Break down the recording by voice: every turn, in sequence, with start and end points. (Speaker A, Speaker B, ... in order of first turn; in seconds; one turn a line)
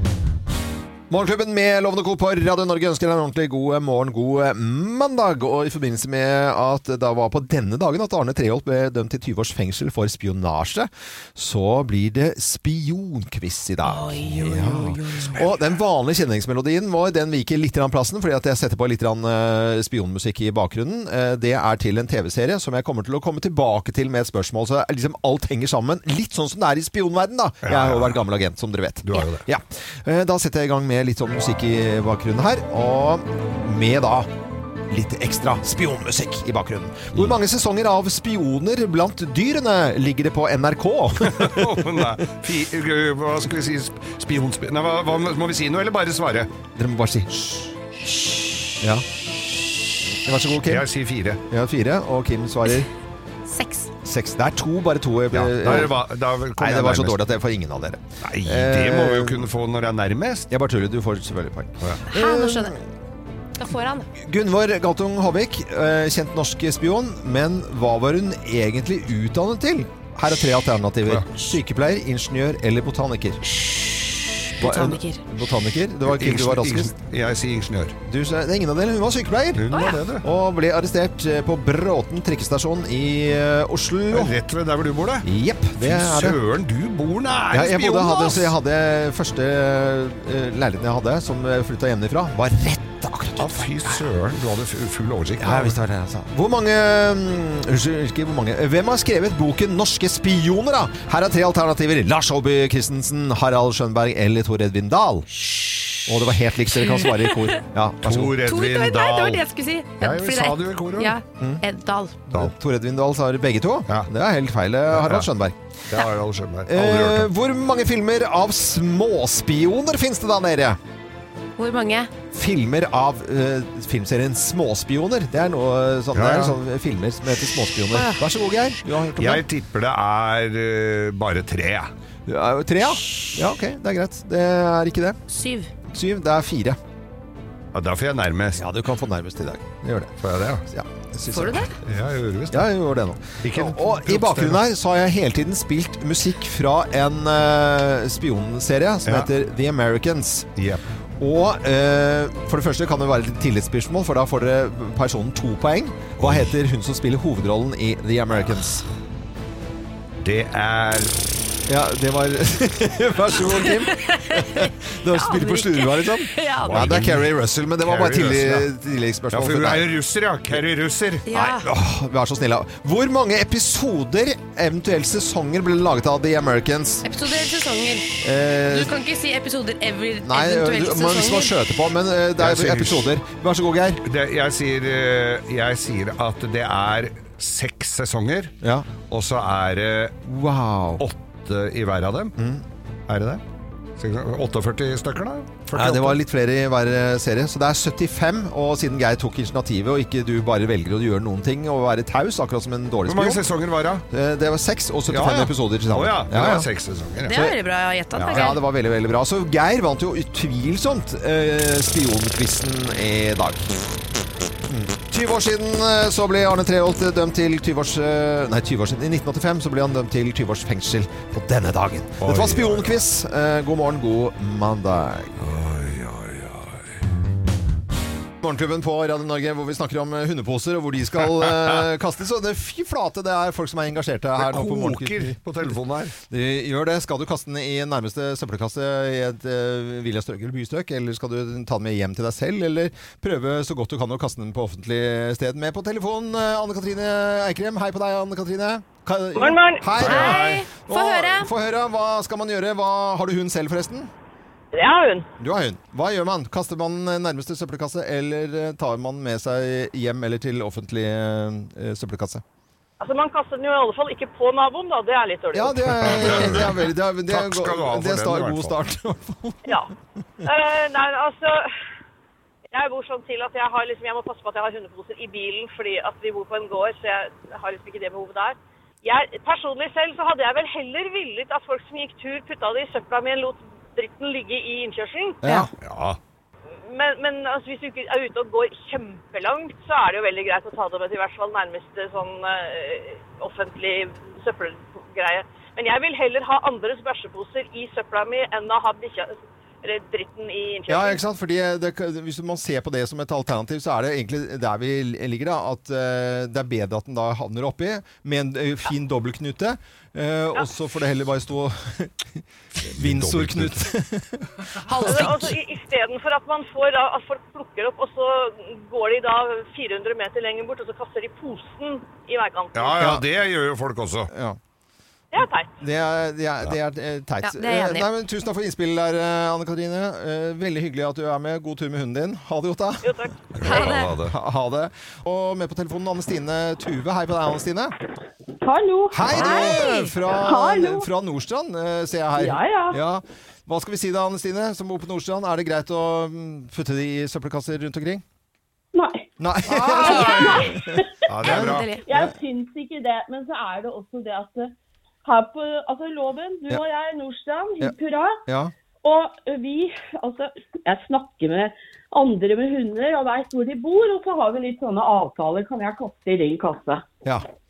Speaker A: 1.1-34.3
Speaker B: 13.8-15.4
Speaker C: 27.6-28.2
Speaker C: 29.1-29.4
Speaker A: 34.9-42.1
Speaker C: 41.2-46.5
Speaker A: 46.8-47.7
Speaker A: 48.8-49.0
Speaker A: 50.1-50.9
Speaker C: 50.6-51.4
Speaker A: 51.5-52.9
Speaker B: 53.5-53.9
Speaker A: 54.0-56.0
Speaker C: 55.3-57.2
Speaker A: 56.6-59.5
Speaker C: 58.2-60.5
Speaker A: 60.5-62.8
Speaker B: 62.1-62.8
Speaker B: 63.6-64.1
Speaker A: 64.2-73.4
Speaker B: 73.5-75.2
Speaker A: 74.6-76.9
Speaker C: 76.0-78.0
Speaker A: 78.1-84.3
Speaker C: 79.5-80.2
Speaker B: 79.7-80.0
Speaker C: 84.1-88.5
Speaker A: 85.2-86.4
Speaker A: 87.5-94.0
Speaker C: 93.4-95.8
Speaker A: 95.4-105.3
Speaker B: 105.5-105.9
Speaker A: 106.0-108.4
Speaker B: 106.7-107.6
Speaker C: 108.0-109.5
Speaker B: 108.4-112.2
Speaker C: 110.0-111.1
Speaker A: 111.4-111.6
Speaker A: 112.3-115.6
Speaker C: 114.9-115.3
Speaker C: 115.9-117.3
Speaker A: 116.7-120.8
Speaker B: 121.6-122.1
Speaker A: 122.3-129.4
Speaker C: 126.1-126.5
Speaker B: 127.9-128.2
Speaker C: 129.2-131.9
Speaker A: 132.2-135.2
Speaker B: 135.3-135.7
Speaker A: 135.9-136.8
Speaker C: 137.7-138.6
Speaker A: 138.6-140.1
Speaker C: 140.2-140.7
Speaker A: 140.7-141.7
Speaker B: 141.3-141.8
Speaker C: 141.8-142.7
Speaker A: 142.5-150.5
Speaker C: 143.4-144.6
Speaker C: 150.6-150.8
Speaker A: 151.2-158.8
Speaker C: 156.2-156.5
Speaker C: 160.2-161.1
Speaker A: 161.7-169.9
Speaker B: 163.6-166.8
Speaker C: 166.6-168.7
Speaker C: 169.3-171.2
Speaker B: 171.2-171.7
Speaker A: 171.3-177.1
Speaker B: 177.0-181.5
Speaker A: 178.2-178.9
Speaker A: 180.2-184.0
Speaker C: 182.4-183.1
Speaker C: 184.0-188.5
Speaker A: 188.6-188.9
Speaker C: 189.1-190.2
Speaker A: 190.2-191.0
Speaker C: 191.0-192.3
Speaker A: 192.4-192.6
Speaker C: 193.1-193.4
Speaker C: 194.0-196.2
Speaker A: 195.7-203.4
Speaker C: 203.1-204.0
Speaker A: 204.1-206.7
Speaker C: 205.1-207.4
Speaker B: 207.2-208.6
Speaker C: 208.2-208.4
Speaker A: 208.3-213.8
Speaker A: 214.7-225.5
Speaker C: 222.2-223.0
Speaker C: 225.4-226.8
Speaker A: 228.4-235.4
Speaker C: 234.4-236.2
Speaker A: 236.2-254.1
Speaker D: 249.3-249.8
Speaker C: 250.0-250.6
Speaker B: 250.0-251.5
Speaker D: 254.7-255.3
Speaker A: 255.4-262.4
Speaker D: 263.0-266.5
Speaker A: 265.5-269.7
Speaker C: 266.0-266.7
Speaker C: 267.3-268.7
Speaker D: 269.6-269.9
Speaker D: 270.4-271.6
Speaker D: 272.7-285.4
Speaker A: 285.4-285.7
Speaker C: 285.8-286.2
Speaker D: 286.8-301.2
Speaker A: 300.9-315.4
Speaker C: 312.9-313.9
Speaker B: 314.9-315.3
Speaker D: 315.0-323.0
Speaker C: 322.7-324.3
Speaker A: 323.0-323.2
Speaker A: 324.3-324.6
Speaker D: 325.3-325.7
Speaker A: 325.8-333.1
Speaker B: 327.4-328.1
Speaker D: 333.0-333.3
Speaker C: 333.6-334.3
Speaker B: 333.6-334.1
Speaker A: 334.2-337.9
Speaker E: 338.6-339.8
Speaker A: 339.1-348.2
Speaker B: 339.3-340.1
Speaker E: 340.3-341.1
Speaker E: 342.4-343.0
Speaker E: 348.9-351.1
Speaker A: 349.4-350.8
Speaker B: 349.7-350.6
Speaker C: 351.3-351.9
Speaker A: 351.4-352.3
Speaker B: 351.5-352.0
Speaker E: 352.0-358.4
Speaker A: 358.5-358.7
Speaker E: 359.0-367.1